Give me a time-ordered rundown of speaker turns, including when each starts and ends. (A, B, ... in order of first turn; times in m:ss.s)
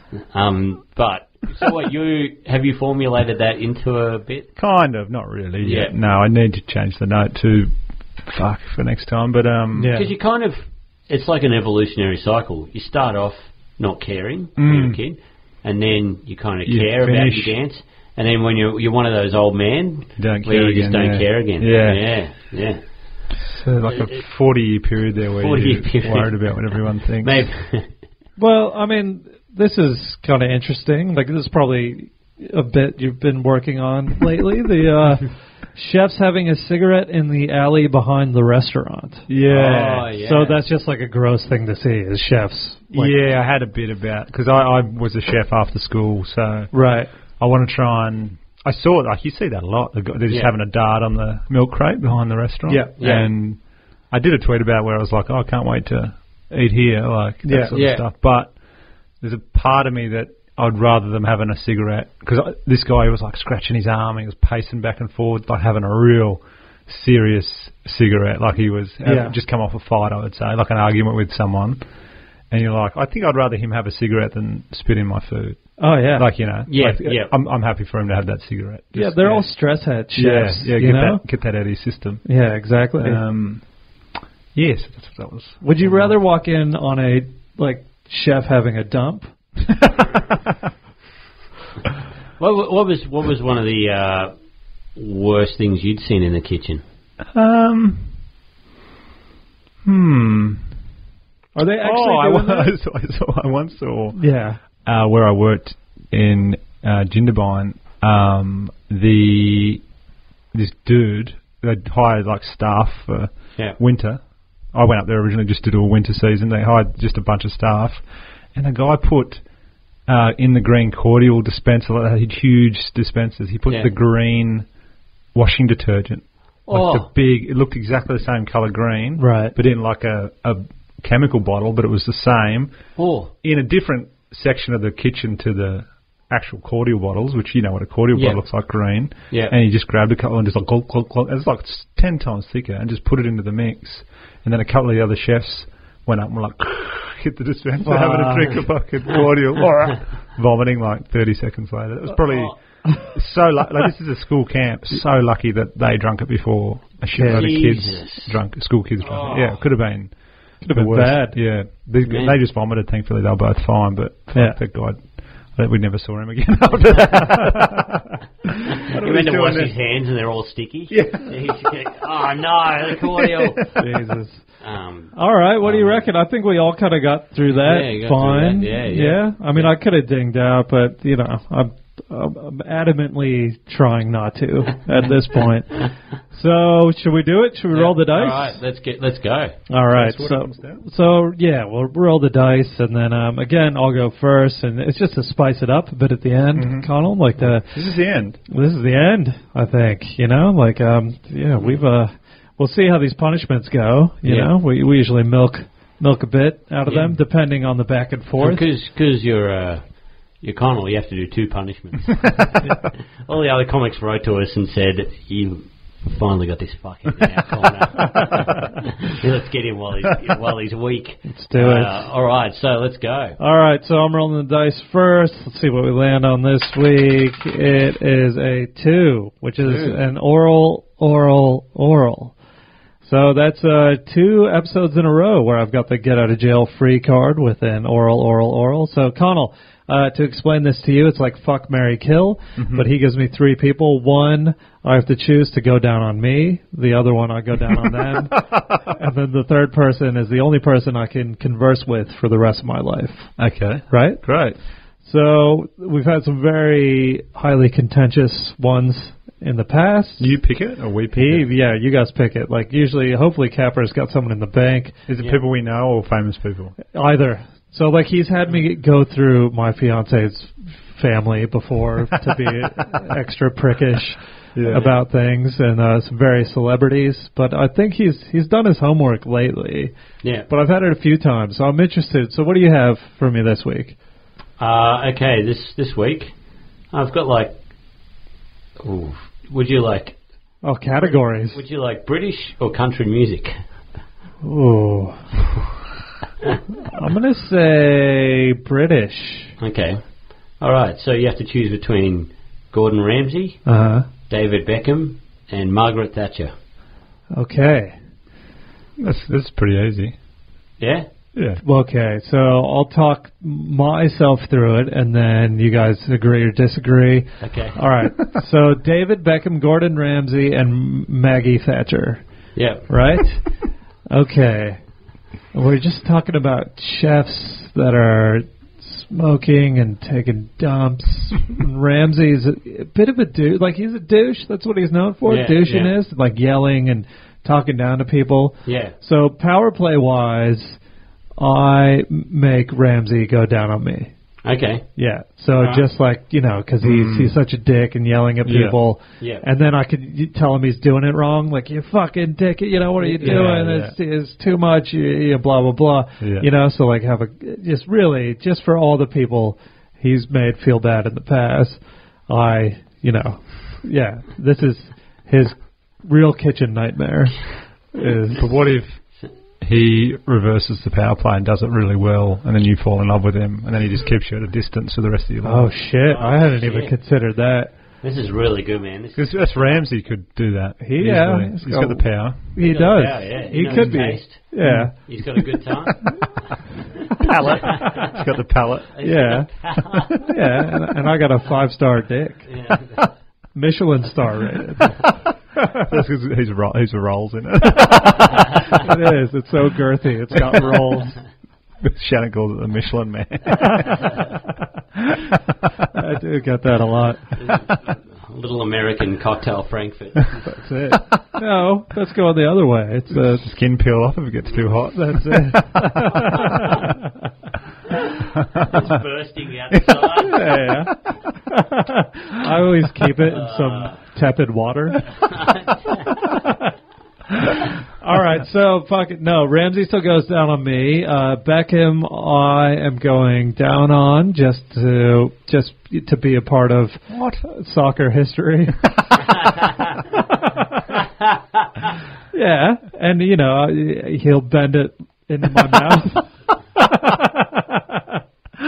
0:00.3-0:04.5 A
0:04.6-0:10.0 B
0:05.6-0:05.9 A
0:09.7-0:10.1 C
0:09.9-0:22.8 A
0:14.6-0:15.0 B
0:16.6-0:17.6 B
0:20.2-0:22.1 B
0:23.4-0:27.5 B
0:23.9-0:24.2 A
0:25.4-0:27.9 A
0:28.4-0:43.1 C
0:39.3-0:40.1 B
0:39.5-0:40.6 A
0:42.9-0:46.7 B
0:46.7-0:47.1 C
0:47.4-0:53.6 B
0:52.7-0:53.0 C
0:53.0-0:53.3 A
0:54.1-0:58.6 B
0:57.4-0:57.7 C
0:57.7-0:58.0 A
0:59.2-1:11.8 B
1:09.0-1:09.3 C
1:12.5-1:19.5 B
1:15.8-1:16.3 C
1:16.7-1:17.3 A
1:18.9-1:21.2 C
1:20.1-1:22.3 B
1:22.2-1:23.2 C
1:23.0-1:23.6 B
1:24.5-1:26.1 B
1:25.6-1:29.3 C
1:29.8-1:30.1 B
1:32.4-1:34.3 A
1:34.9-1:36.8 A
1:37.3-1:38.2 B
1:39.8-1:40.6 B
1:41.5-1:42.7 C
1:41.8-1:44.2 B
1:44.2-1:44.6 C
1:44.8-1:49.8 B
1:50.5-1:54.2 B
1:54.7-1:59.4 B
2:00.1-2:04.7 B
2:05.3-2:12.9 B
2:06.7-2:07.1 A
2:09.2-2:09.6 C
2:13.0-2:13.3 A
2:13.4-2:48.2 B
2:18.1-2:18.4 A
2:19.3-2:19.5 A
2:27.8-2:28.6 C
2:32.2-2:32.5 A
2:37.1-2:37.5 C
2:37.2-2:38.4 A
2:39.0-2:39.6 A
2:40.6-2:41.4 C
2:42.0-2:42.4 A
2:44.3-2:44.6 C
2:48.8-2:53.7 A
2:48.9-2:49.8 B
2:50.9-2:51.4 B
2:53.1-2:53.6 B
2:53.8-2:54.4 C
2:54.6-2:56.1 A
2:55.1-3:08.6 C
2:57.5-2:59.7 A
3:07.7-3:09.6 A
3:09.7-3:17.9 C
3:09.9-3:10.8 B
3:16.5-3:18.4 B
3:18.5-3:28.6 C
3:24.2-3:24.5 A
3:26.9-3:27.1 A
3:28.4-3:43.4 A
3:41.3-3:42.0 C
3:43.4-3:52.4 C
3:49.6-3:50.0 A
3:53.0-4:13.4 C
4:02.6-4:02.9 B
4:13.4-4:14.6 B
4:13.9-4:14.3 C
4:15.0-4:20.4 C
4:20.2-4:21.5 B
4:21.1-4:25.0 C
4:25.1-4:26.8 B
4:26.9-4:39.9 C
4:34.5-4:34.8 B
4:34.7-4:35.0 A
4:40.5-4:44.0 C
4:44.6-4:46.3 A
4:46.9-4:47.6 A
4:48.8-4:50.2 A
4:50.6-4:51.6 C
4:51.5-4:53.6 A
4:54.4-4:55.3 C
4:56.9-4:59.6 C
4:59.6-5:00.0 A
5:00.6-5:03.6 A
5:03.6-5:04.1 C
5:04.3-5:06.5 A
5:07.3-5:07.9 C
5:09.0-5:10.1 B
5:10.8-5:11.1 A
5:11.3-5:11.6 B
5:11.6-5:22.2 C
5:17.4-5:17.8 A
5:22.5-5:22.9 A
5:22.9-5:23.5 C
5:24.1-5:24.8 C
5:25.5-5:40.8 C
5:35.2-5:35.9 A
5:38.6-5:38.9 A
5:41.4-5:44.1 C
5:44.4-5:44.9 A
5:45.0-6:08.5 C
5:45.6-5:45.8 A
5:46.8-5:47.4 B
5:48.4-5:48.8 B
5:53.2-5:53.9 B
5:53.2-5:53.5 A
5:56.2-5:56.5 B
6:08.3-6:09.0 B
6:09.6-6:15.7 B
6:15.4-6:17.7 C
6:16.0-6:16.9 A
6:18.0-6:19.8 A
6:19.1-6:22.4 B
6:20.8-6:24.9 C
6:22.6-6:26.5 A
6:24.6-6:25.1 B
6:27.2-6:28.0 C
6:27.2-6:28.9 B
6:27.6-6:28.1 A
6:28.9-6:30.2 A
6:29.0-6:29.5 C
6:30.1-6:32.5 C
6:32.4-6:33.1 A
6:33.5-6:35.0 C
6:35.7-6:38.5 B
6:38.6-6:41.2 C
6:40.3-6:40.6 B
6:41.8-6:44.2 B
6:43.6-6:44.0 C
6:45.0-6:45.3 B
6:45.9-6:47.4 C
6:47.4-6:50.4 A
6:50.4-6:53.5 C
6:53.1-6:56.6 B
6:54.9-6:56.9 C
6:58.5-6:58.8 B
6:58.6-7:00.7 A
6:59.7-7:00.1 B
7:00.2-7:05.2 C
7:03.3-7:04.0 A
7:05.3-7:06.0 A
7:06.2-7:06.6 C
7:08.0-7:19.5 C
7:17.1-7:17.4 B
7:20.3-7:20.9 C
7:22.3-7:28.2 C